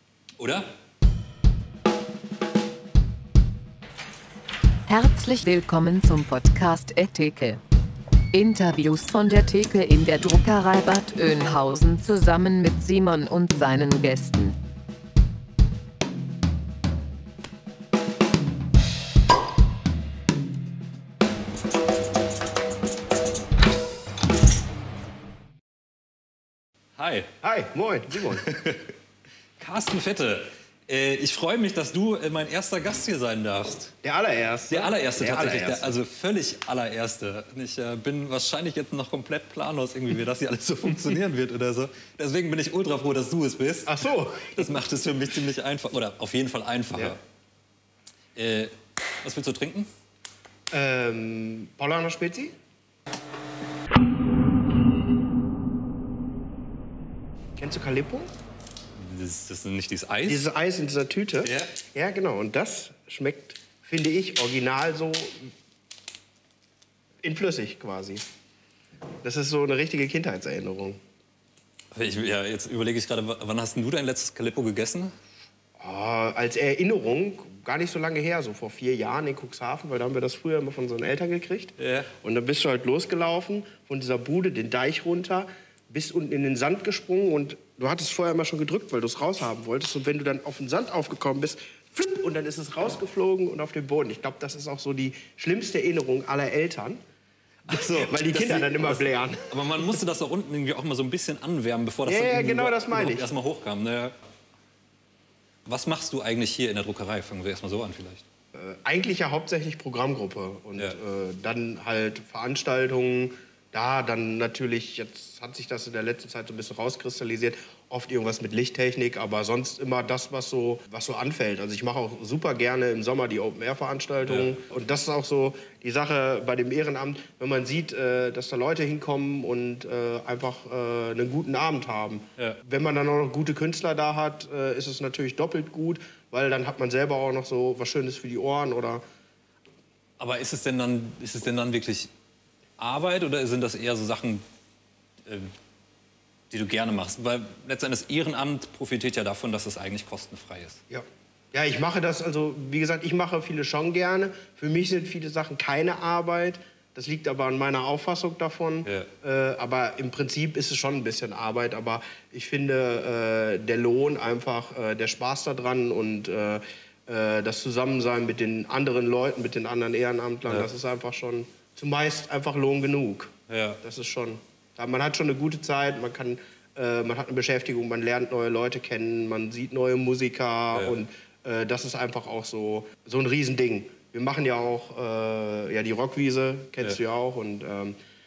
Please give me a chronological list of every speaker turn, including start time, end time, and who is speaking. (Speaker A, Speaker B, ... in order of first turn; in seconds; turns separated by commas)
Speaker A: 0.4-0.7, Speaker B: 4.9-7.6, Speaker B: 8.3-14.6, Speaker A: 27.0-27.3, Speaker C: 27.4-28.5, Speaker A: 28.4-28.9, Speaker A: 29.6-33.9, Speaker C: 34.0-36.0, Speaker A: 34.7-44.0, Speaker C: 43.9-44.8, Speaker A: 44.5-47.2, Speaker A: 48.4-49.9, Speaker C: 50.7-52.5, Speaker C: 57.6-58.3, Speaker A: 58.9-60.5, Speaker C: 60.3-65.5, Speaker A: 61.4-61.8, Speaker C: 67.2-68.2, Speaker C: 69.2-71.0, Speaker A: 71.9-75.1, Speaker C: 75.8-97.0, Speaker A: 81.8-82.1, Speaker A: 97.7-104.1, Speaker C: 97.7-100.0, Speaker C: 102.0-103.3, Speaker A: 105.7-108.2, Speaker C: 108.5-139.0, Speaker A: 140.2-142.1, Speaker A: 142.8-144.4, Speaker A: 145.3-145.5, Speaker A: 146.5-150.8, Speaker C: 150.9-173.3, Speaker A: 173.5-173.8, Speaker C: 173.8-188.0, Speaker A: 180.7-181.0